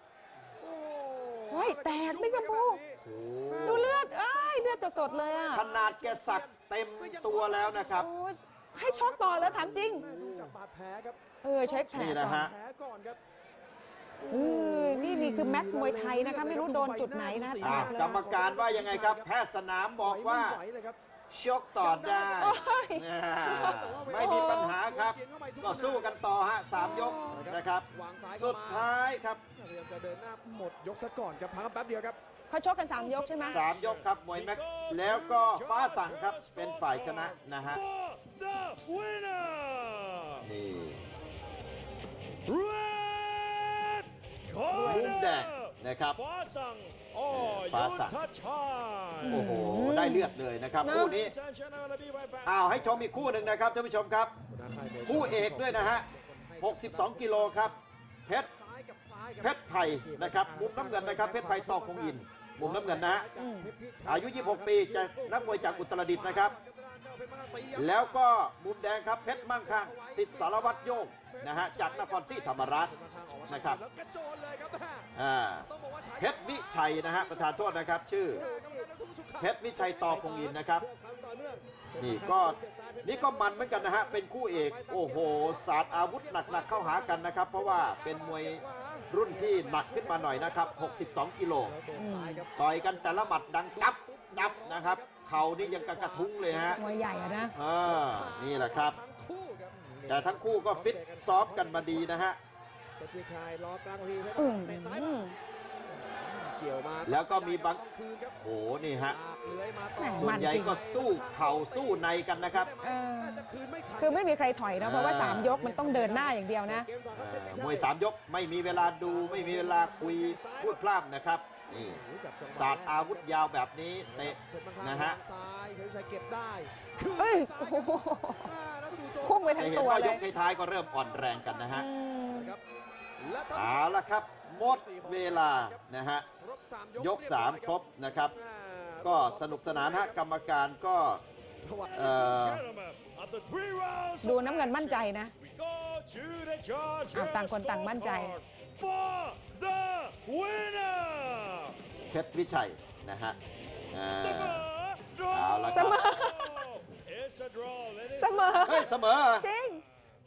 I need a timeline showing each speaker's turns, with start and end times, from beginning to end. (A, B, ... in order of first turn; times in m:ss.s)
0:00.6-0:08.0 A
0:01.5-0:02.8 B
0:03.0-0:04.0 C
0:03.6-0:05.7 B
0:05.5-0:08.1 C
0:07.9-0:10.5 B
0:08.7-0:13.2 A
0:09.4-0:09.9 C
0:11.4-0:12.5 B
0:11.9-0:12.5 C
0:14.3-0:18.6 B
0:14.3-0:19.3 A
0:17.6-0:20.6 C
0:20.0-0:21.0 A
0:21.3-0:29.4 C
0:21.8-0:22.6 A
0:22.3-0:24.8 B
0:23.4-0:26.2 A
0:26.8-0:27.5 B
0:27.3-0:28.9 A
0:29.6-0:32.2 A
0:32.5-0:33.6 B
0:32.9-0:40.5 D
0:33.4-0:37.8 C
0:40.4-0:41.0 C
0:42.5-0:49.6 D
0:44.7-0:45.2 B
0:44.7-0:46.2 C
0:47.3-0:48.2 C
0:49.2-0:51.2 B
0:49.3-0:51.4 C
0:50.9-0:53.0 D
0:52.4-0:54.3 C
0:53.0-0:53.6 A
0:54.5-0:57.8 A
0:55.0-0:56.1 C
0:56.6-0:57.8 C
0:58.3-1:08.2 A
0:59.4-1:03.3 C
1:03.4-1:03.7 B
1:04.1-1:06.6 C
1:07.7-1:12.9 C
1:09.2-1:15.1 A
1:13.5-1:13.8 C
1:15.2-1:15.7 C
1:15.7-1:42.3 A
1:16.2-1:18.5 C
1:19.4-1:20.8 C
1:22.0-1:31.8 C
1:31.9-1:32.4 B
1:32.6-1:36.8 C
1:36.7-1:37.5 B
1:37.5-1:39.0 C
1:40.1-1:42.4 C
1:43.0-1:45.2 A
1:44.4-1:45.4 B
1:45.9-1:48.4 A
1:47.0-1:47.8 C
1:48.4-1:49.2 C
1:49.1-1:57.9 A
1:50.0-1:50.8 B
1:50.2-1:52.7 C
1:52.8-1:56.9 B
1:54.8-1:55.6 C
1:57.1-2:05.2 C
1:58.7-2:00.8 A
2:01.7-2:03.4 A
2:04.0-2:10.1 A
2:07.2-2:08.5 B
2:09.2-2:10.2 B
2:09.6-2:11.9 C
2:11.0-2:11.6 A
2:11.7-2:12.6 B
2:12.3-2:12.6 A
2:13.2-2:14.0 A
2:13.5-2:16.3 C
2:14.6-2:15.8 A
2:16.4-2:17.8 A
2:17.0-2:18.4 C
2:18.3-2:20.2 A
2:19.0-2:21.2 C
2:21.6-2:22.1 A
2:21.8-2:31.8 D
2:22.0-2:22.7 C
2:24.2-2:25.3 B
2:27.1-2:28.4 B
2:32.0-2:33.4 C
2:33.9-2:34.7 C
2:34.2-2:34.6 B
2:34.3-2:38.8 D
2:35.3-2:36.1 C
2:35.7-2:36.7 B
2:38.2-2:39.8 B
2:38.6-2:39.5 C